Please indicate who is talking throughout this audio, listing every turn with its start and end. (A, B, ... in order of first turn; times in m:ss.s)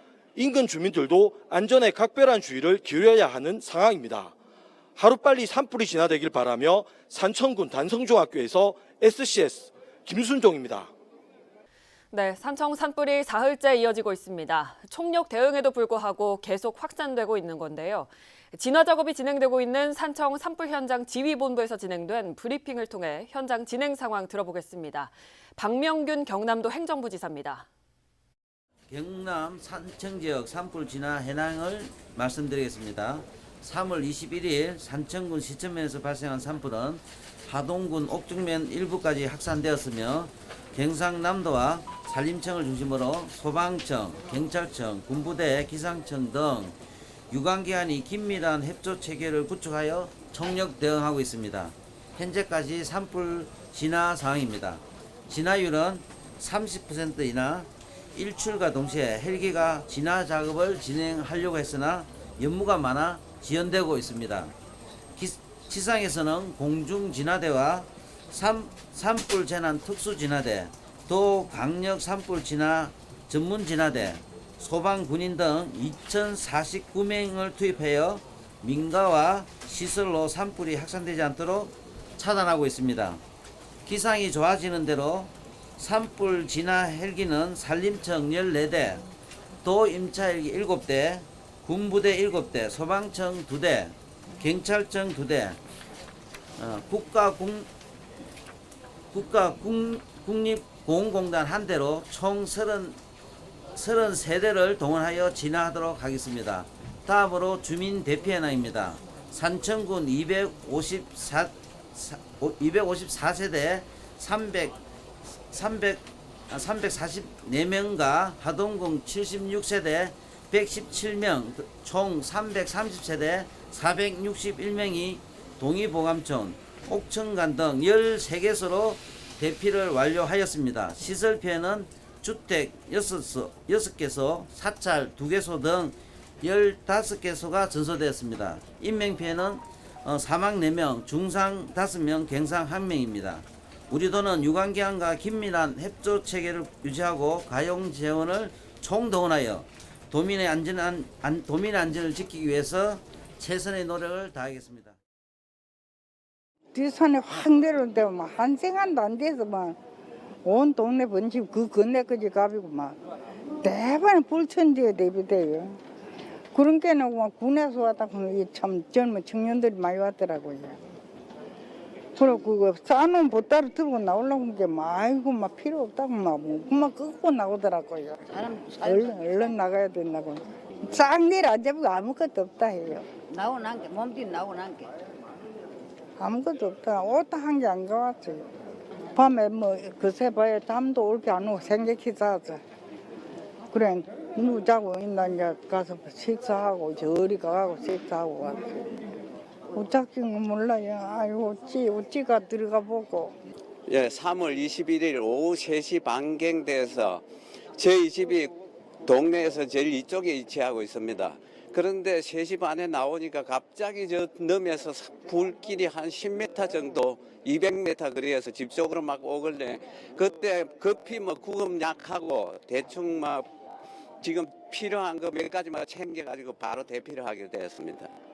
0:00.4-0:04.3 A
0:05.0-0:10.9 A
0:12.1-0:27.7 B
0:28.9-0:46.8 C
0:47.3-1:04.5 C
1:05.2-1:23.2 C
1:23.9-1:29.1 C
1:29.6-1:35.6 C
1:36.6-1:37.7 C
1:39.1-1:43.0 C
1:43.8-1:54.8 C
1:55.5-2:35.0 C
2:36.7-2:39.8 D
2:40.4-2:43.0 D
2:43.6-2:45.8 D
2:46.5-2:50.8 D
2:52.2-2:58.2 D
2:58.3-2:59.1 E
2:58.8-3:03.1 D
3:03.3-3:04.9 E
3:06.2-3:08.4 D
3:09.2-3:12.6 D
3:13.7-3:18.9 D
3:19.7-3:23.4 D
3:23.9-3:27.2 F
3:27.8-3:28.5 F
3:29.0-3:43.5 F
3:44.2-3:48.1 F